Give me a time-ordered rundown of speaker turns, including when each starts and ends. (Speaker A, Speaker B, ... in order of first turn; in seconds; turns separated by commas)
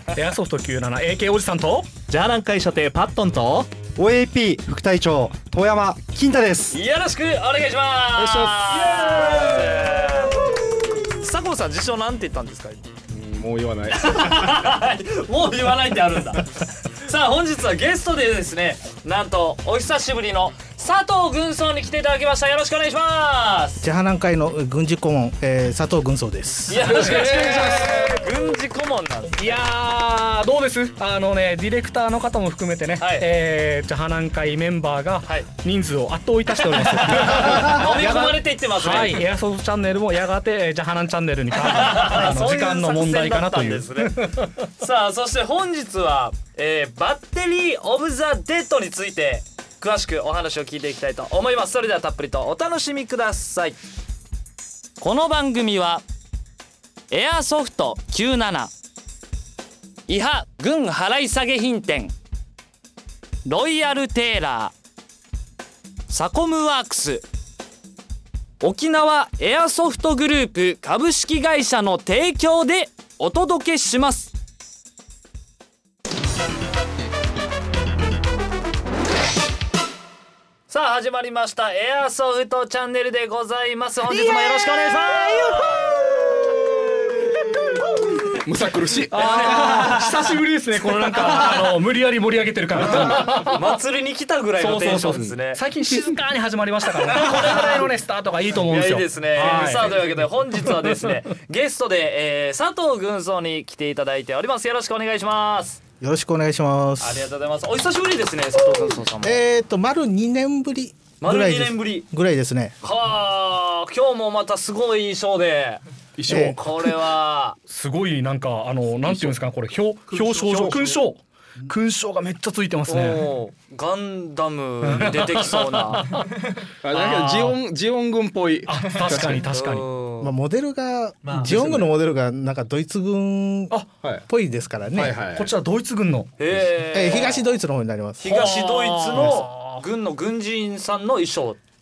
Speaker A: 0.1-1.9, Speaker B: 2.1-3.7, Speaker C: 4.0-6.8, Speaker D: 6.7-12.9, Speaker E: 8.2-9.8, Speaker E: 13.1-14.6, Speaker D: 13.9-23.8, Speaker F: 23.8-26.9, Speaker D: 26.7-29.5, Speaker E: 26.9-28.3, Speaker A: 27.3-28.0, Speaker A: 29.3-44.6, Speaker D: 33.0-33.3, Speaker D: 36.6-39.2, Speaker D: 41.6-53.8, Speaker D: 55.0-56.0, Speaker D: 57.1-58.7, Speaker D: 60.1-62.1, Speaker D: 63.4-64.7, Speaker D: 66.1-67.3, Speaker D: 68.6-74.3, Speaker D: 80.7-85.8, Speaker E: 88.3-89.8, Speaker A: 89.1-93.8, Speaker D: 89.1-90.0, Speaker D: 91.2-91.7, Speaker D: 92.8-95.6, Speaker A: 94.6-101.2, Speaker D: 97.0-97.9, Speaker D: 98.5-105.8, Speaker F: 106.0-107.3, Speaker D: 107.0-109.4, Speaker F: 109.2-112.8, Speaker D: 111.2-112.1, Speaker D: 112.8-117.6, Speaker E: 116.2-116.6, Speaker F: 116.3-116.6, Speaker A: 117.7-123.3, Speaker E: 120.3-120.9, Speaker D: 122.9-126.2, Speaker A: 124.8-126.3, Speaker E: 126.8-129.4, Speaker D: 126.9-127.5, Speaker A: 128.7-129.8, Speaker D: 129.5-130.3, Speaker F: 130.2-135.2, Speaker B: 131.2-131.8, Speaker E: 131.6-131.9, Speaker E: 134.9-135.5, Speaker A: 135.0-136.5, Speaker D: 136.4-137.4, Speaker F: 136.9-138.3, Speaker D: 138.2-141.6, Speaker A: 138.2-139.8